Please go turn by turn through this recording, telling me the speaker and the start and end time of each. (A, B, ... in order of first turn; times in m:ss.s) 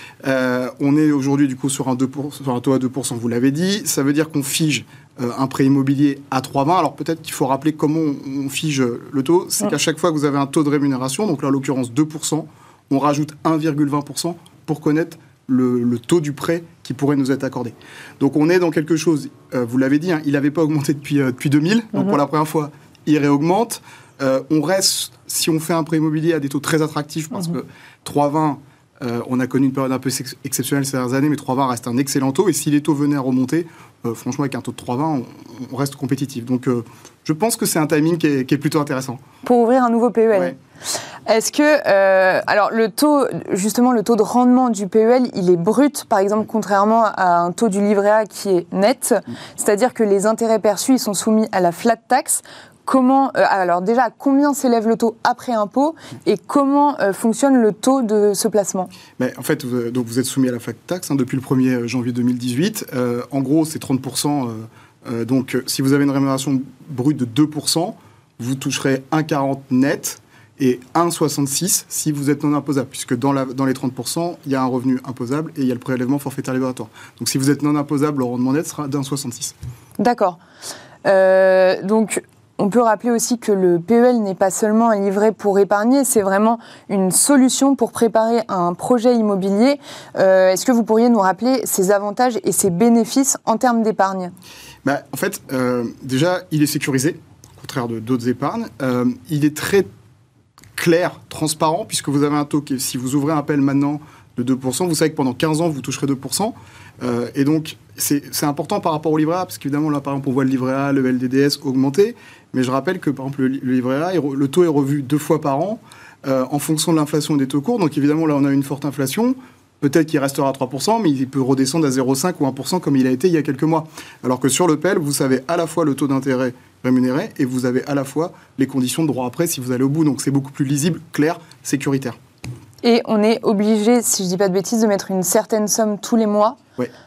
0:00.2-0:39.2 A
0:39.4-0:40.6 B
0:41.3-0:58.9 B
0:59.2-1:19.5 A
1:20.0-1:20.4 B
1:21.0-1:34.3 B
1:34.8-1:39.9 A
1:40.8-2:12.2 A
2:12.8-2:16.6 B